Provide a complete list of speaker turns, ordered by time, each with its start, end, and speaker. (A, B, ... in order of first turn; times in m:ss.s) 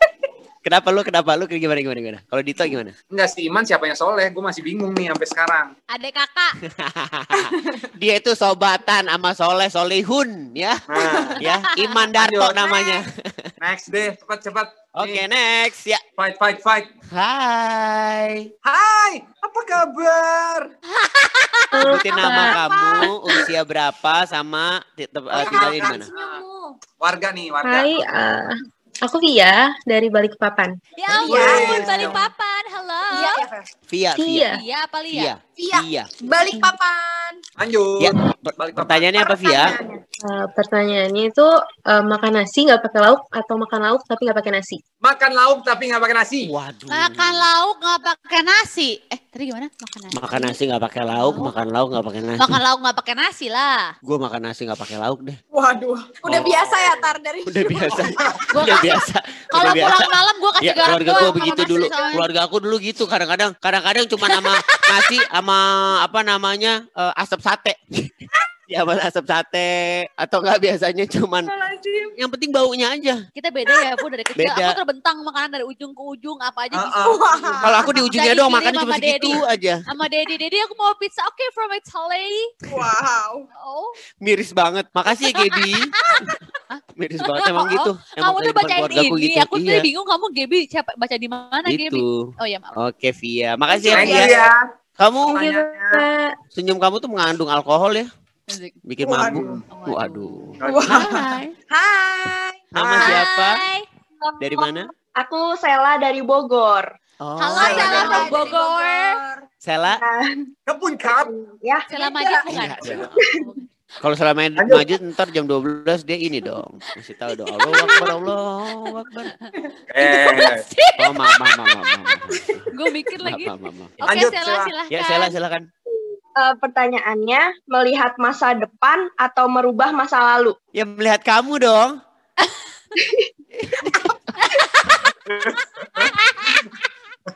0:00.6-0:02.9 A
0:03.1-0:05.7 B
0:05.9-0:06.6 C
0:06.6-0:13.5 A
0:10.9-0:11.4 B
0:11.1-0:11.3 D
0:11.5-0:12.0 C
0:12.2-0:12.6 B
0:12.6-0:12.9 C
0:13.6-0:15.2 B
0:15.0-0:16.0 A
0:16.2-0:16.9 B
0:17.1-0:18.5 A
0:18.6-0:20.7 B
0:20.9-0:22.4 C
0:21.8-0:22.6 E
0:21.8-0:26.1 A
0:22.4-0:23.1 D
0:25.3-0:26.4 B
0:25.4-0:26.7 D
0:27.0-0:28.0 B
0:27.6-0:30.8 E
0:31.0-0:33.4 C
0:31.1-0:32.1 D
0:31.1-0:31.7 A
0:31.3-0:32.2 B
0:33.1-0:33.7 D
0:33.9-0:34.5 A
0:34.2-0:34.6 E
0:34.4-0:35.3 C
0:35.1-0:36.1 A
0:35.6-0:37.4 D
0:37.6-0:39.1 B
0:38.0-0:39.8 A
0:39.2-0:40.0 D
0:40.2-0:44.8 E
0:45.0-0:46.5 B
0:46.4-0:47.4 A
0:46.9-0:50.5 C
0:50.1-0:52.5 A
0:51.1-0:51.6 C
0:52.4-0:53.9 C
0:54.0-0:55.4 A
0:55.5-0:58.0 D
0:56.2-1:11.5 A
0:58.5-1:02.2 C
1:01.0-1:02.1 D
1:04.2-1:05.2 C
1:11.4-1:12.1 D
1:12.1-1:13.2 A
1:13.3-1:22.5 C
1:14.4-1:14.8 A
1:16.7-1:17.6 B
1:17.0-1:17.9 D
1:17.6-1:19.8 A
1:22.7-1:23.4 D
1:23.5-1:24.0 C
1:24.2-1:25.9 A
1:25.2-1:32.7 C
1:27.0-1:29.9 A
1:31.7-1:34.4 A
1:33.9-1:34.6 B
1:33.9-1:34.5 D
1:35.0-1:35.6 A
1:35.2-1:36.0 B
1:35.6-1:36.3 E
1:36.5-1:38.1 A
1:38.5-1:38.8 C
1:38.9-1:41.5 A
1:39.0-1:39.6 D
1:39.3-1:39.6 B
1:39.7-1:40.5 C
1:40.6-1:41.2 B
1:40.6-1:42.6 D
1:42.7-1:43.6 A
1:42.7-1:43.2 B
1:43.0-1:43.9 C
1:44.2-1:44.7 D
1:44.4-1:44.9 A
1:45.2-1:46.9 F
1:47.2-1:48.3 A
1:47.4-1:49.2 C
1:47.6-1:48.5 B
1:47.6-1:49.4 D
1:49.6-1:50.0 A
1:49.9-1:50.4 F
1:50.7-1:51.3 B
1:51.0-1:51.8 F
1:51.9-1:52.5 D
1:51.9-1:53.6 C
1:52.5-1:53.2 A
1:54.0-1:59.3 A
1:54.6-1:54.9 B
1:57.4-1:58.2 C
1:59.3-2:01.6 C
1:59.9-2:00.6 B
2:01.0-2:02.7 A
2:02.7-2:05.3 C
2:03.2-2:04.0 A
2:04.0-2:04.7 B
2:04.9-2:05.7 A
2:06.4-2:10.6 F
2:10.7-2:12.0 A
2:13.0-2:13.3 F
2:13.6-2:14.1 A
2:14.4-2:15.1 C
2:15.3-2:16.1 B
2:15.9-2:16.8 C